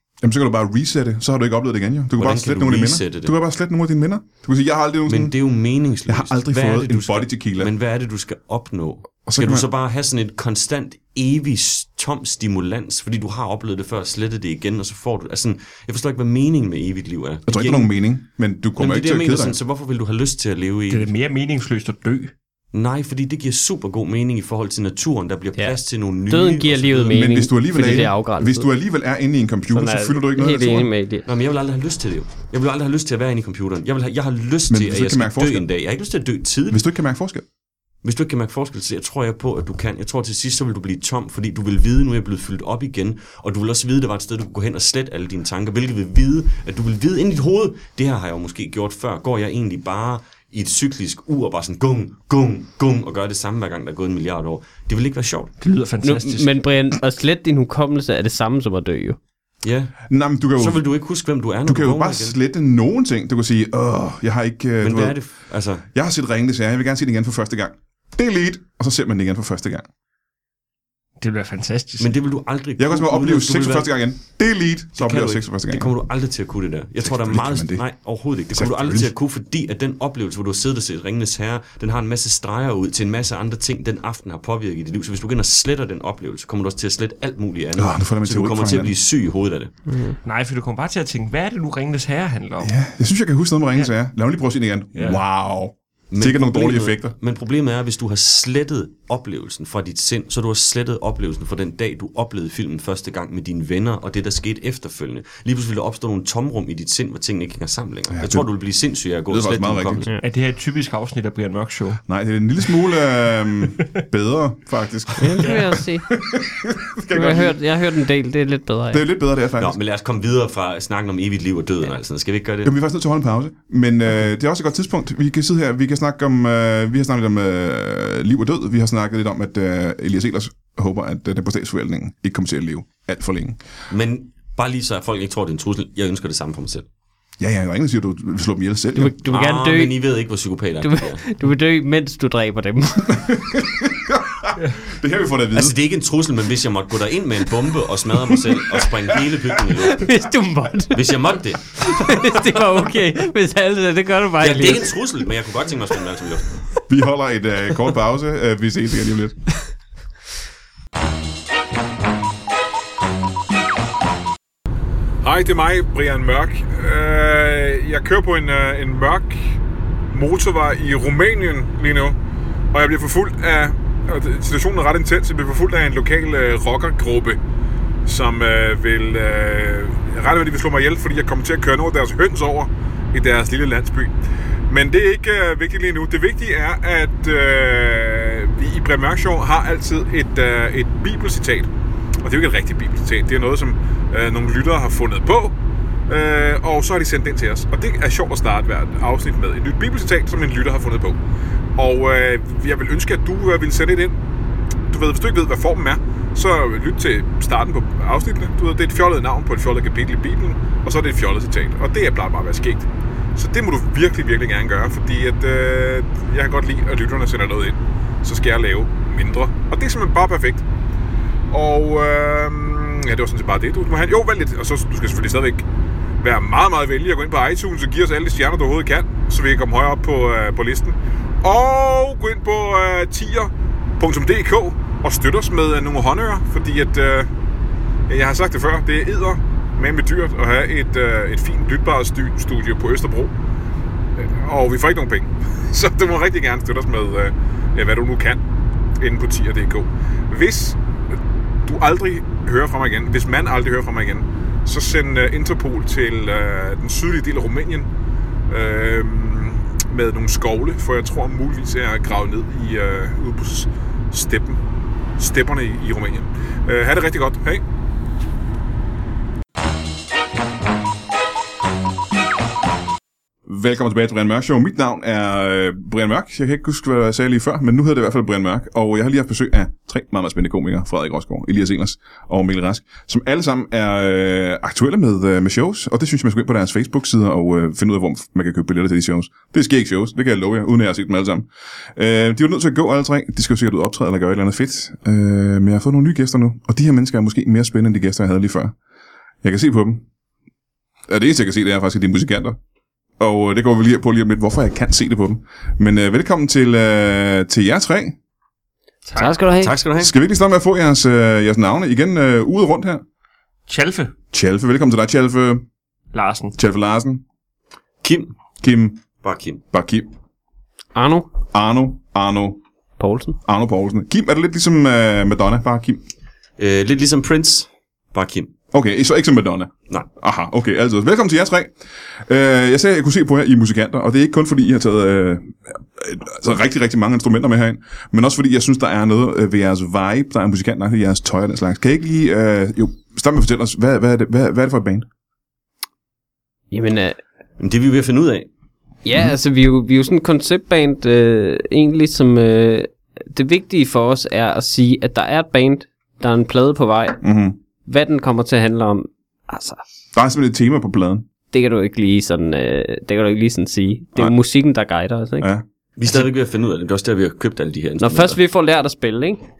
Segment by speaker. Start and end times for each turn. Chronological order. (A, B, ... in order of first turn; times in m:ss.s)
0:00.2-0:05.4 A
0:02.2-0:03.4 B
0:05.1-0:17.9 B
0:06.0-0:07.7 A
0:09.2-0:09.6 A
0:17.5-0:19.6 A
0:18.8-0:21.1 B
0:20.9-0:22.3 C
0:22.7-0:27.3 B
0:25.6-0:28.7 D
0:27.1-0:30.9 A
0:29.7-0:31.3 D
0:31.2-0:36.8 B
0:34.7-0:35.7 A
0:36.7-0:37.4 A
0:38.0-0:55.5 B
0:55.6-0:56.5 C
0:56.0-0:59.2 D
0:59.6-1:00.0 B
1:00.1-1:00.8 A
1:00.6-1:02.4 B
1:01.6-1:05.2 A
1:04.8-1:05.8 B
1:05.9-1:09.9 A
1:11.2-1:12.1 C
1:12.0-1:14.0 B
1:12.8-1:15.9 A
1:15.0-1:29.7 B
1:17.0-1:17.8 A
1:18.5-1:19.1 A
1:27.8-1:28.9 A
1:29.9-1:30.1 D
1:30.2-1:32.7 C
1:32.6-1:37.1 A
1:34.9-1:35.2 C
1:36.1-1:50.1 B
1:48.1-1:48.5 A
1:49.3-1:50.1 A
1:50.2-1:52.0 C
1:52.1-1:57.6 A
1:55.2-1:56.1 D
1:55.4-1:55.7 C
1:57.1-1:59.0 D
1:58.9-1:59.8 A
1:59.6-2:02.7 B
2:02.6-2:13.6 A
2:13.9-2:16.9 B
2:17.4-2:19.2 A
2:19.0-2:20.1 D
2:19.2-2:21.2 B
2:20.8-2:23.6 D
2:23.1-2:25.8 A
2:25.5-2:30.1 B
2:29.8-2:31.2 D
2:30.9-2:32.4 B
2:31.8-2:34.9 D
2:34.4-2:36.4 B
2:36.9-2:39.4 A
2:45.2-2:49.6 E
2:50.1-2:52.2 E
2:52.7-2:57.4 E
2:58.0-3:04.1 E
3:04.7-3:11.7 E
3:12.2-3:15.5 E
3:16.1-3:21.2 E
3:21.8-3:24.2 E
3:24.9-3:40.6 E
3:41.5-3:45.6 E
3:46.2-3:57.3 E
3:58.1-4:03.3 E
4:04.2-4:08.4 E
4:09.0-4:10.8 E
4:11.6-4:17.9 E
4:18.5-4:24.6 E
4:25.2-4:27.6 E
4:33.5-4:58.7 A
4:59.4-5:00.0 A
5:01.1-5:02.6 A
5:03.2-5:08.2 A
5:09.1-5:09.3 C
5:09.1-5:09.7 D
5:09.6-5:10.1 B
5:10.0-5:13.0 A
5:13.7-5:14.1 C
5:14.3-5:15.6 A
5:16.1-5:16.6 C
5:16.6-5:17.2 A
5:18.0-5:18.3 B
5:18.6-5:19.0 A
5:19.2-5:19.6 B
5:19.7-5:20.1 A
5:20.9-5:21.3 D
5:21.5-5:22.6 A
5:23.0-5:23.4 D
5:23.4-5:26.0 A
5:26.6-5:28.5 B
5:28.7-5:45.0 A
5:46.7-5:47.2 D
5:47.6-5:48.5 B
5:49.0-5:57.2 D
5:57.2-5:57.6 A
5:57.8-5:59.8 D
6:00.1-6:01.2 A
6:01.5-6:05.5 D
6:06.0-6:08.4 B
6:08.0-6:09.4 D